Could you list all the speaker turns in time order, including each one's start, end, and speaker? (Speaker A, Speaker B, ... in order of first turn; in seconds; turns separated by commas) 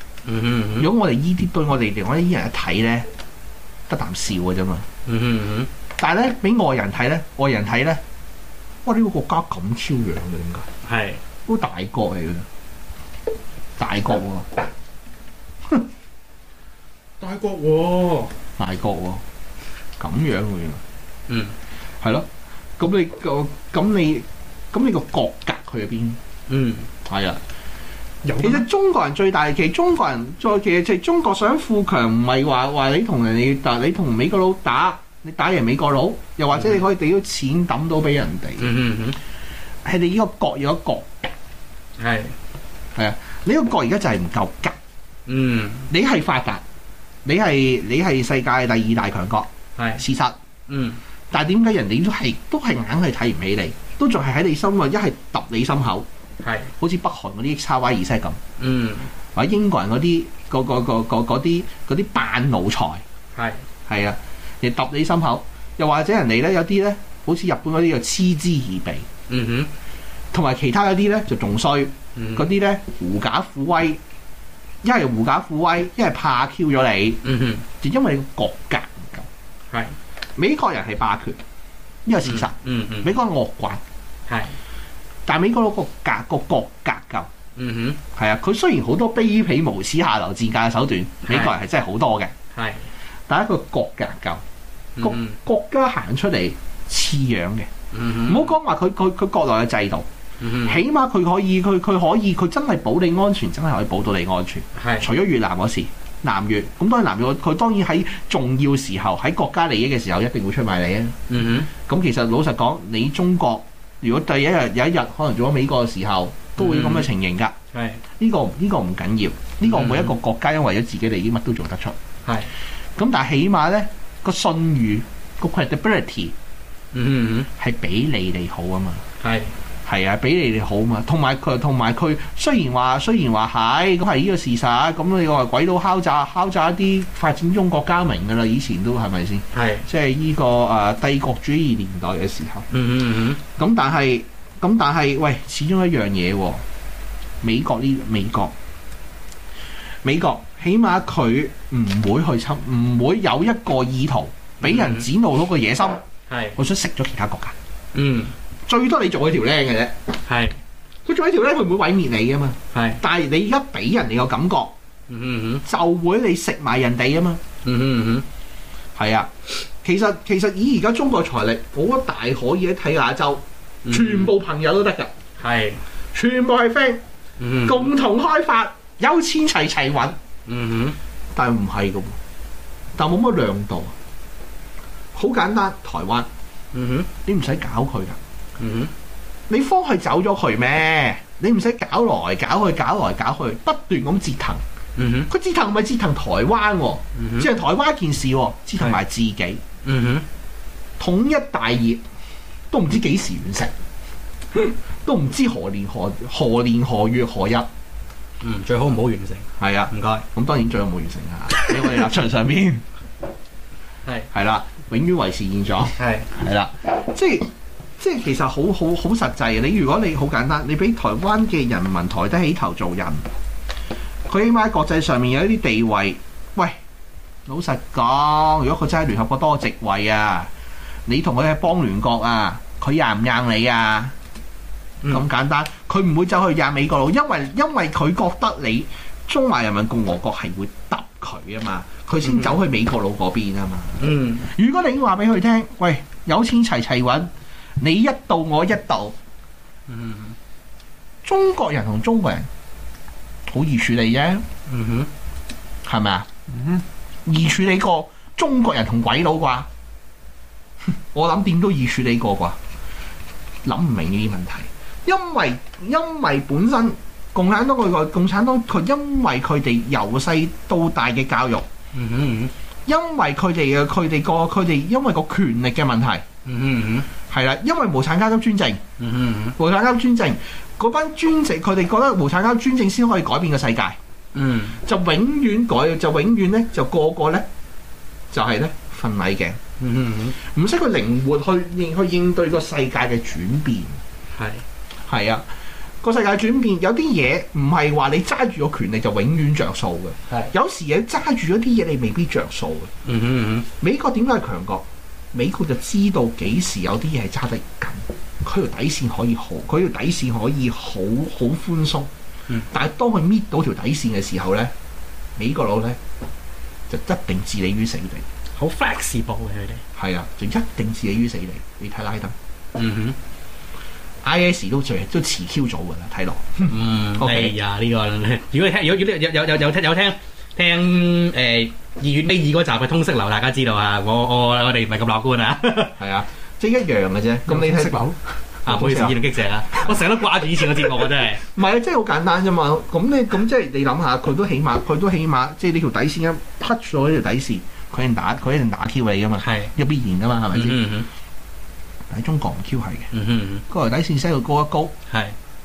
Speaker A: 0.3-0.9, Speaker B: 0.8-3.1, Speaker B: 3.9-4.9, Speaker A: 5.1-5.7, Speaker B: 6.0-8.0, Speaker B: 8.8-10.7, Speaker A: 10.8-11.2, Speaker B: 11.5-12.5, Speaker B: 13.8-14.5, Speaker C: 17.2-18.3, Speaker B: 18.6-19.2, Speaker B: 20.0-20.8, Speaker A: 21.3-21.6, Speaker B: 22.0-26.2, Speaker A: 26.5-26.9, Speaker B: 27.1-27.4, Speaker C: 28.2-28.6, Speaker B: 28.4-38.7, Speaker A: 36.5-36.8, Speaker A: 38.6-39.2, Speaker B: 39.8-41.3, Speaker A: 42.0-42.4, Speaker B: 43.0-44.8, Speaker A: 45.3-45.9, Speaker B: 45.9-46.6, Speaker B: 47.2-50.4, Speaker A: 49.8-50.0, Speaker A: 50.7-51.0, Speaker B: 51.3-56.1, Speaker A: 56.4-56.7, Speaker B: 56.8-58.4, Speaker A: 58.6-59.1, Speaker B: 59.4-63.0, Speaker A: 63.4-63.6, Speaker B: 63.9-69.1, Speaker A: 69.3-69.7, Speaker B: 70.3-74.0, Speaker A: 72.2-72.5, Speaker B: 74.8-77.2, Speaker A: 77.2-77.7, Speaker B: 77.8-79.3, Speaker B: 80.4-81.4, Speaker B: 82.0-83.8, Speaker A: 82.2-83.1, Speaker A: 84.3-84.6, Speaker B: 85.3-87.3, Speaker A: 87.6-88.0, Speaker B: 88.2-92.3, Speaker A: 91.2-91.5, Speaker A: 92.5-92.9, Speaker B: 93.3-94.4, Speaker A: 95.0-95.4, Speaker B: 95.0-97.7, Speaker A: 97.9-98.5, Speaker B: 98.2-100.1, Speaker A: 100.4-100.8, Speaker B: 100.7-111.2, Speaker A: 104.8-105.1, Speaker A: 111.3-111.7, Speaker B: 111.8-117.5, Speaker A: 116.6-117.1, Speaker A: 117.7-118.0, Speaker B: 118.2-122.0, Speaker A: 119.6-120.2, Speaker B: 123.0-126.3, Speaker A: 126.9-127.5, Speaker B: 127.6-129.0, Speaker A: 129.2-129.5, Speaker B: 129.9-142.7, Speaker A: 139.5-139.9, Speaker A: 142.7-143.4, Speaker B: 143.6-146.6, Speaker B: 147.4-148.6, Speaker B: 150.0-156.0, Speaker A: 154.6-155.1, Speaker A: 156.3-156.6, Speaker B: 156.6-157.6, Speaker A: 157.9-158.3, Speaker B: 158.7-160.0, Speaker A: 160.2-160.6, Speaker B: 161.1-164.7, Speaker A: 162.7-163.0, Speaker A: 165.1-165.6, Speaker B: 165.7-167.4, Speaker A: 167.6-168.3, Speaker B: 169.0-175.1, Speaker A: 173.8-174.3, Speaker A: 175.4-175.8, Speaker B: 176.1-177.0, Speaker A: 177.4-177.9, Speaker B: 177.6-180.2, Speaker A: 180.5-181.0, Speaker B: 181.3-182.2, Speaker B: 183.0-183.9, Speaker B: 185.1-186.3, Speaker A: 186.7-187.1, Speaker B: 187.2-188.2, Speaker A: 188.6-188.9, Speaker B: 189.5-194.6, Speaker A: 195.0-195.3, Speaker B: 195.3-199.6, Speaker A: 197.2-197.5, Speaker A: 199.8-200.3, Speaker B: 201.0-202.0, Speaker B: 202.7-203.7, Speaker B: 204.5-207.7, Speaker A: 208.4-210.2, Speaker B: 209.6-212.8, Speaker B: 214.3-223.3, Speaker A: 215.9-216.3, Speaker B: 224.3-226.8, Speaker B: 227.5-230.5, Speaker B: 231.1-234.2, Speaker B: 235.1-249.2, Speaker A: 242.2-242.6, Speaker A: 244.0-244.5, Speaker A: 249.9-250.4, Speaker B: 251.2-252.5, Speaker B: 253.5-254.5, Speaker A: 254.7-255.1, Speaker B: 255.8-256.3, Speaker C: 256.5-256.8, Speaker B: 257.2-259.7, Speaker B: 260.9-262.6, Speaker B: 263.6-271.7, Speaker A: 271.9-272.5, Speaker B: 272.9-276.2, Speaker A: 276.4-277.1, Speaker B: 277.3-278.8, Speaker A: 279.0-279.6, Speaker B: 279.6-284.0, Speaker A: 284.3-284.8, Speaker B: 284.8-287.5, Speaker B: 288.3-289.6, Speaker A: 289.8-290.4, Speaker B: 290.4-294.0, Speaker A: 294.3-294.6, Speaker B: 295.1-295.4, Speaker B: 296.0-302.9, Speaker A: 303.1-303.7, Speaker B: 303.8-312.1, Speaker B: 312.7-314.7, Speaker B: 315.4-316.0, Speaker B: 316.9-318.2, Speaker A: 318.6-319.8, Speaker B: 320.0-322.4, Speaker A: 322.8-323.2, Speaker B: 324.2-327.5, Speaker A: 326.6-336.0, Speaker B: 336.0-338.1, Speaker C: 337.5-338.2, Speaker A: 338.7-341.4, Speaker B: 338.7-339.2, Speaker C: 338.7-339.1, Speaker B: 341.4-350.8, Speaker A: 349.4-349.7, Speaker A: 350.5-351.1, Speaker B: 352.1-353.1, Speaker A: 353.1-353.6, Speaker B: 353.7-354.9, Speaker A: 355.1-355.4